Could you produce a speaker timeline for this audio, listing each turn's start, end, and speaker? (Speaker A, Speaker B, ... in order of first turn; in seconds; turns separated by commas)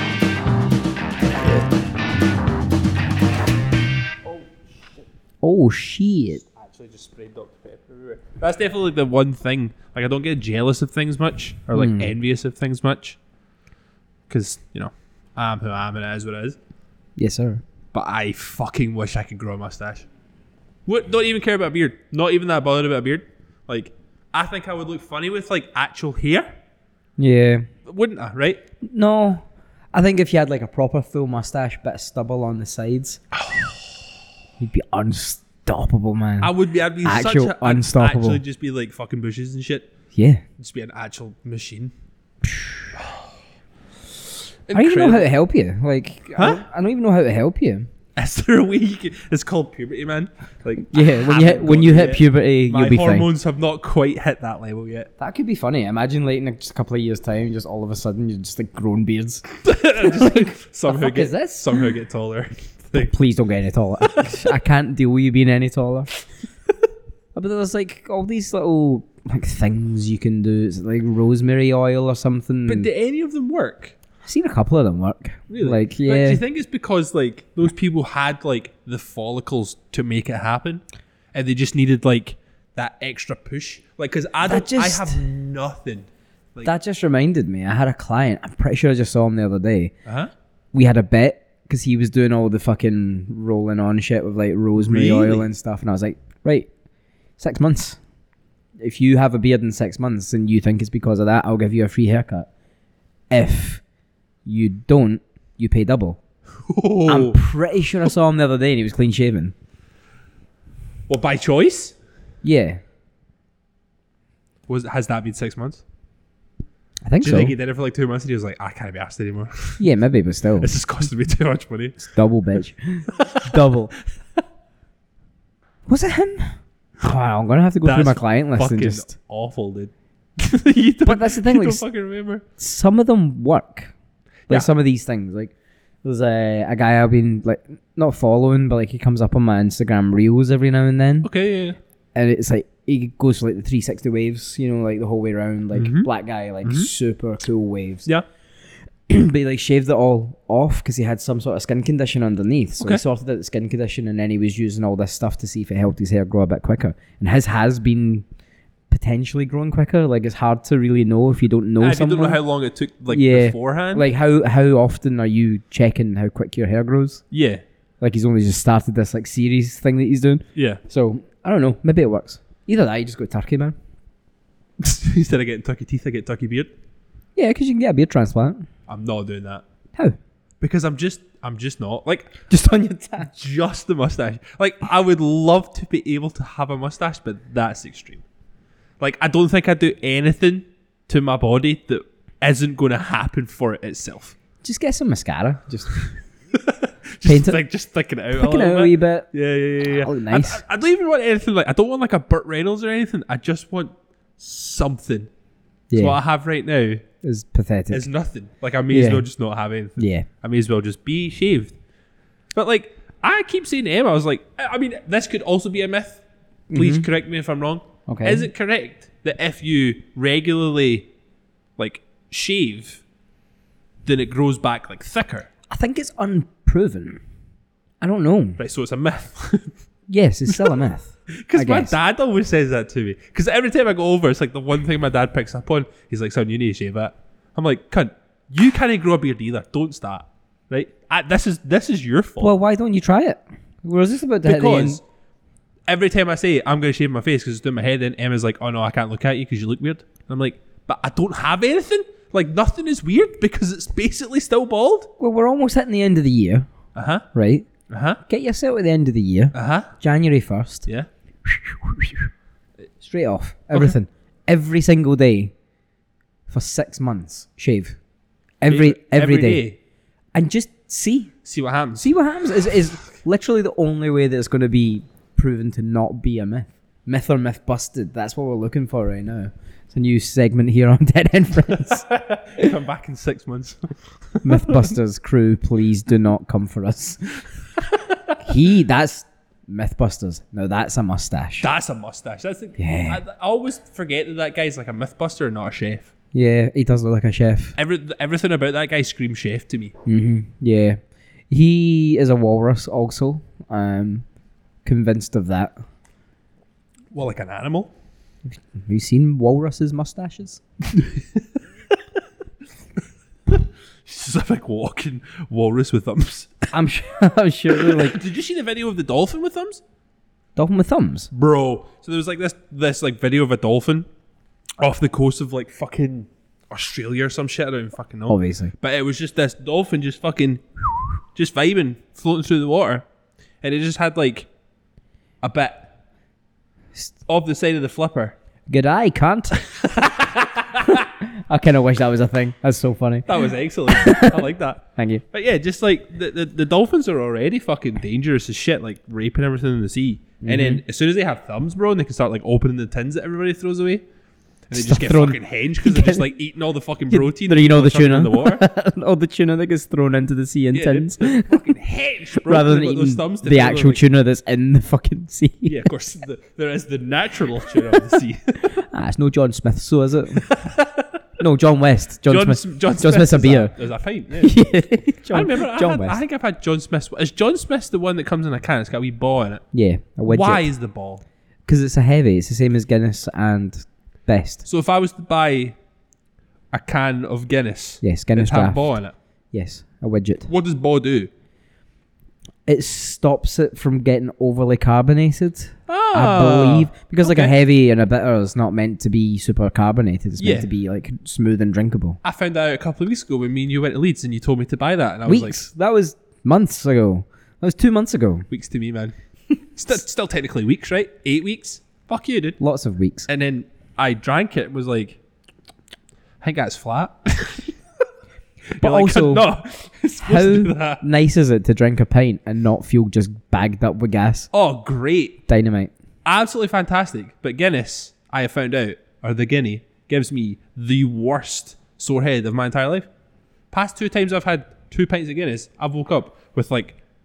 Speaker A: 4.3-5.0, Speaker B: 5.4-6.4, Speaker A: 6.4-13.2, Speaker B: 11.7-12.1, Speaker A: 14.3-16.6, Speaker B: 17.2-17.6, Speaker A: 17.9-20.1, Speaker A: 20.9-26.5, Speaker B: 27.2-27.7, Speaker A: 27.9-28.6, Speaker B: 28.8-33.2, Speaker A: 33.3-34.0, Speaker B: 34.6-36.5, Speaker A: 36.4-39.9, Speaker B: 37.0-38.4, Speaker B: 40.1-40.4, Speaker A: 40.6-41.9, Speaker B: 42.4-42.9, Speaker A: 43.0-43.2, Speaker A: 44.7-45.3, Speaker B: 44.7-47.9, Speaker A: 46.4-46.6, Speaker A: 48.2-55.1, Speaker B: 50.8-53.3, Speaker B: 55.2-59.5, Speaker A: 59.6-63.1, Speaker B: 60.0-61.9, Speaker B: 62.9-66.1, Speaker B: 67.3-72.9, Speaker A: 72.7-74.0, Speaker B: 74.2-76.4, Speaker A: 75.5-80.8, Speaker A: 81.3-86.7, Speaker B: 84.5-85.2, Speaker B: 86.6-89.9, Speaker A: 90.1-90.3, Speaker B: 90.7-96.7, Speaker A: 94.8-95.5, Speaker B: 97.4-98.0, Speaker B: 98.8-102.5, Speaker B: 103.3-103.8, Speaker B: 104.5-106.2, Speaker A: 106.7-107.4, Speaker B: 107.1-109.5, Speaker A: 111.1-112.0, Speaker B: 112.4-112.8, Speaker A: 114.7-115.8, Speaker B: 117.1-117.5, Speaker A: 117.2-119.8, Speaker B: 119.8-120.7, Speaker A: 120.6-122.1, Speaker B: 122.0-123.9, Speaker A: 123.1-123.5, Speaker B: 125.9-129.1, Speaker A: 127.8-132.4, Speaker B: 131.1-131.8, Speaker B: 132.6-133.9, Speaker B: 134.5-135.5, Speaker B: 136.0-141.3, Speaker A: 141.2-141.8, Speaker B: 142.2-148.1, Speaker A: 145.7-146.1, Speaker A: 146.6-146.9, Speaker B: 149.1-158.2, Speaker B: 158.9-162.4, Speaker A: 161.8-164.1, Speaker B: 163.1-167.2, Speaker A: 167.3-167.6, Speaker B: 168.0-173.8, Speaker A: 170.6-170.8, Speaker A: 174.8-176.7, Speaker B: 177.4-178.7, Speaker A: 178.9-179.6, Speaker A: 180.6-182.5, Speaker B: 182.5-183.3, Speaker A: 183.2-188.2, Speaker A: 189.0-194.4, Speaker B: 194.6-195.9, Speaker A: 195.9-205.3, Speaker B: 197.3-197.6, Speaker B: 198.3-199.3, Speaker B: 200.0-200.6, Speaker B: 205.9-206.2, Speaker A: 205.9-207.0, Speaker B: 207.2-208.1, Speaker A: 207.9-211.8, Speaker B: 208.9-209.2, Speaker B: 210.0-210.3, Speaker A: 212.6-216.2, Speaker B: 216.7-217.1, Speaker A: 216.7-221.1, Speaker B: 218.1-218.5, Speaker A: 221.8-223.0, Speaker A: 224.1-225.5, Speaker B: 225.7-227.2, Speaker B: 228.0-228.6, Speaker A: 228.6-229.8, Speaker B: 230.1-231.9, Speaker A: 230.5-230.8, Speaker A: 231.3-242.5, Speaker B: 242.4-245.0, Speaker A: 244.4-245.0, Speaker A: 245.9-255.1, Speaker B: 255.2-256.7, Speaker A: 256.9-257.3, Speaker B: 257.3-257.7, Speaker A: 257.9-258.2, Speaker B: 258.3-260.9, Speaker A: 259.5-259.9, Speaker B: 261.4-262.3, Speaker B: 263.0-265.5, Speaker B: 266.5-268.0, Speaker B: 268.6-269.6, Speaker A: 268.7-269.8, Speaker B: 270.3-271.3, Speaker A: 271.4-272.1, Speaker B: 272.0-282.1, Speaker A: 281.8-284.9, Speaker B: 284.4-287.4, Speaker A: 288.1-288.4, Speaker B: 288.4-291.7, Speaker A: 291.6-296.1, Speaker B: 292.8-293.2, Speaker B: 296.3-297.8, Speaker A: 297.8-299.9, Speaker B: 300.1-301.0, Speaker B: 301.5-304.2, Speaker B: 304.8-305.8, Speaker A: 307.1-307.9, Speaker B: 308.5-310.6, Speaker A: 311.0-311.4, Speaker A: 313.5-316.7, Speaker B: 316.7-318.2, Speaker A: 317.7-319.8, Speaker B: 320.6-321.3, Speaker A: 321.3-324.1, Speaker A: 324.8-333.0, Speaker B: 328.3-328.7, Speaker A: 333.6-334.5, Speaker A: 335.4-335.9, Speaker A: 337.3-338.4, Speaker B: 338.7-339.6, Speaker A: 339.7-341.1, Speaker B: 340.8-345.2, Speaker A: 343.3-354.0, Speaker B: 350.4-350.8, Speaker A: 354.7-358.6, Speaker B: 354.7-356.3, Speaker B: 357.1-361.6, Speaker A: 360.7-364.0, Speaker B: 362.3-365.8, Speaker A: 365.7-368.8, Speaker B: 368.8-370.4, Speaker A: 370.4-371.1, Speaker B: 371.4-373.7, Speaker A: 372.3-374.6, Speaker B: 374.4-376.2, Speaker A: 375.3-379.6, Speaker B: 379.7-380.7, Speaker A: 380.3-381.2, Speaker B: 381.7-384.6, Speaker A: 384.6-385.8, Speaker A: 386.7-389.1, Speaker B: 388.0-388.9, Speaker B: 389.5-390.5, Speaker A: 390.5-391.3, Speaker B: 392.7-402.2, Speaker A: 395.9-397.6, Speaker A: 400.4-400.7, Speaker A: 402.2-405.6, Speaker B: 405.3-408.5, Speaker A: 408.5-409.1, Speaker A: 409.8-412.6, Speaker B: 412.6-413.3, Speaker A: 413.3-415.2, Speaker A: 416.4-417.7, Speaker A: 418.8-421.0, Speaker B: 418.8-419.5, Speaker B: 420.2-424.5, Speaker A: 424.5-425.4, Speaker B: 425.5-425.9, Speaker A: 426.2-433.1, Speaker A: 433.7-437.0